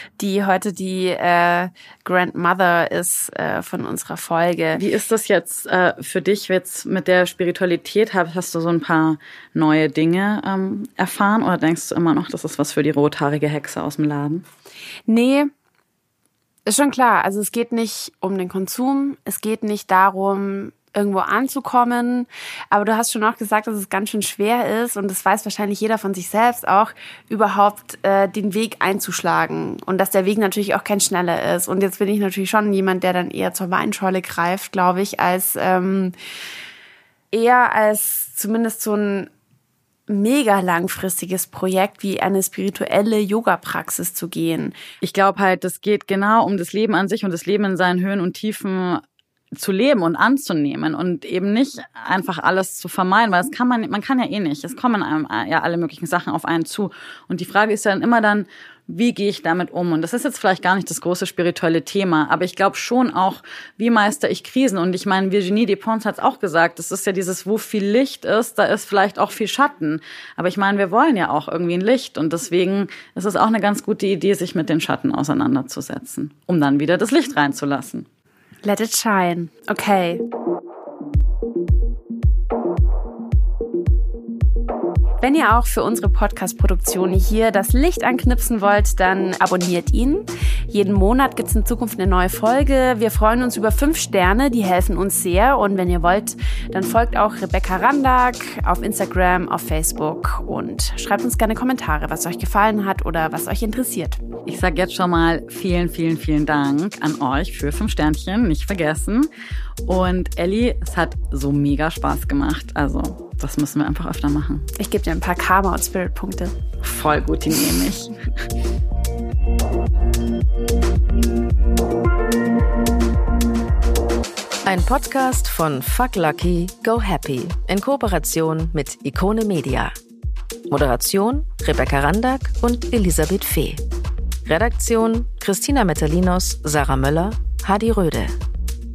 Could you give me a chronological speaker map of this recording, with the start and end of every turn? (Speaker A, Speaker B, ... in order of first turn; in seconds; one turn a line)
Speaker A: 0.2-4.8
Speaker B: 4.7-14.4
Speaker A: 15.1-15.5
Speaker A: 16.6-36.1
Speaker A: 37.3-39.3
Speaker A: 40.1-44.8
Speaker B: 45.0-78.1
Speaker A: 78.6-80.2
Speaker A: 85.2-104.2
Speaker B: 104.4-109.3
Speaker B: 109.8-114.7
Speaker A: 114.7-116.5
Speaker B: 116.8-118.2
Speaker C: 124.6-129.9
Speaker C: 130.7-133.8
Speaker C: 134.4-138.3